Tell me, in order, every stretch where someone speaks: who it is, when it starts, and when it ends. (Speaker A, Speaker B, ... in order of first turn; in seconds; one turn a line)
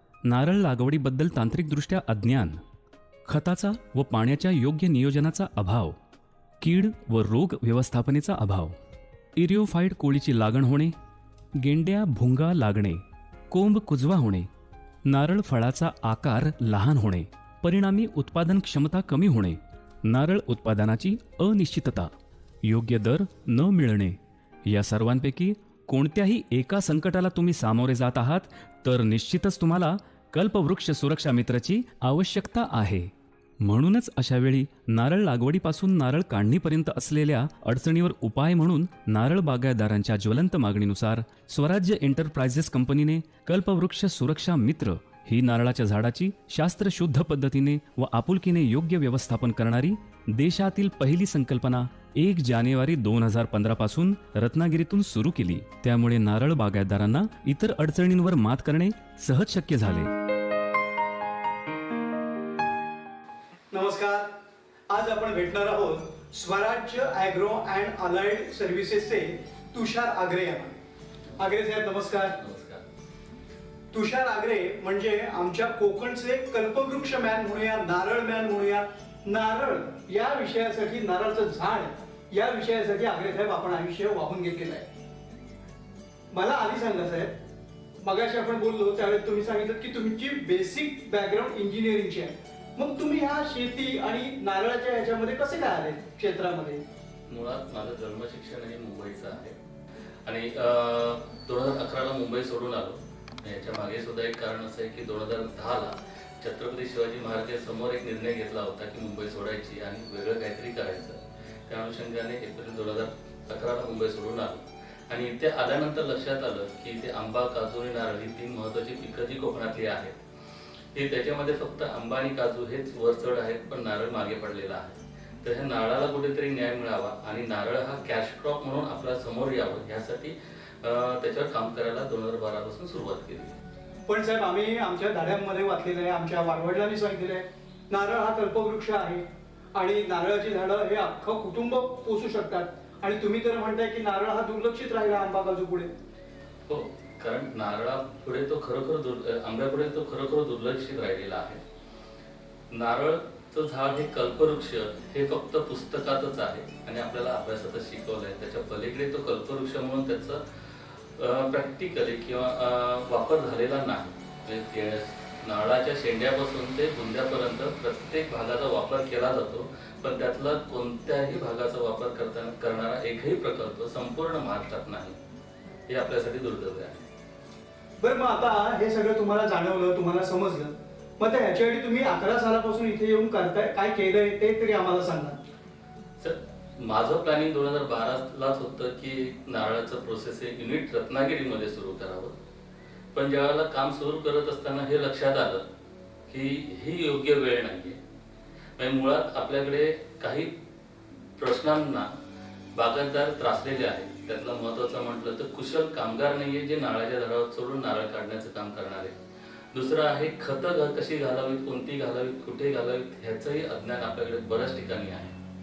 Speaker A: 0.2-2.6
Speaker A: 3.3-6.0
Speaker A: 6.6-8.8
Speaker A: 9.4-10.9
Speaker A: 11.6-14.5
Speaker A: 15.1-22.1
Speaker A: 22.6-33.1
Speaker A: 33.6-60.1
Speaker B: 63.7-64.3
Speaker B: 64.9-70.8
Speaker B: 71.4-72.4
Speaker C: 72.4-72.8
Speaker B: 73.9-84.9
Speaker B: 86.3-87.4
Speaker B: 88.0-96.8
Speaker C: 97.3-99.6
Speaker C: 100.3-120.1
Speaker C: 120.9-133.6
Speaker B: 134.1-139.2
Speaker B: 139.8-145.9
Speaker C: 146.7-151.6
Speaker C: 152.7-175.2
Speaker C: 175.9-177.1
Speaker B: 178.0-185.4
Speaker C: 186.2-192.3
Speaker C: 193.1-195.6
Speaker C: 196.3-198.0
Speaker C: 198.8-200.5
Speaker C: 201.4-202.1
Speaker C: 202.8-209.2
Speaker C: 209.7-215.4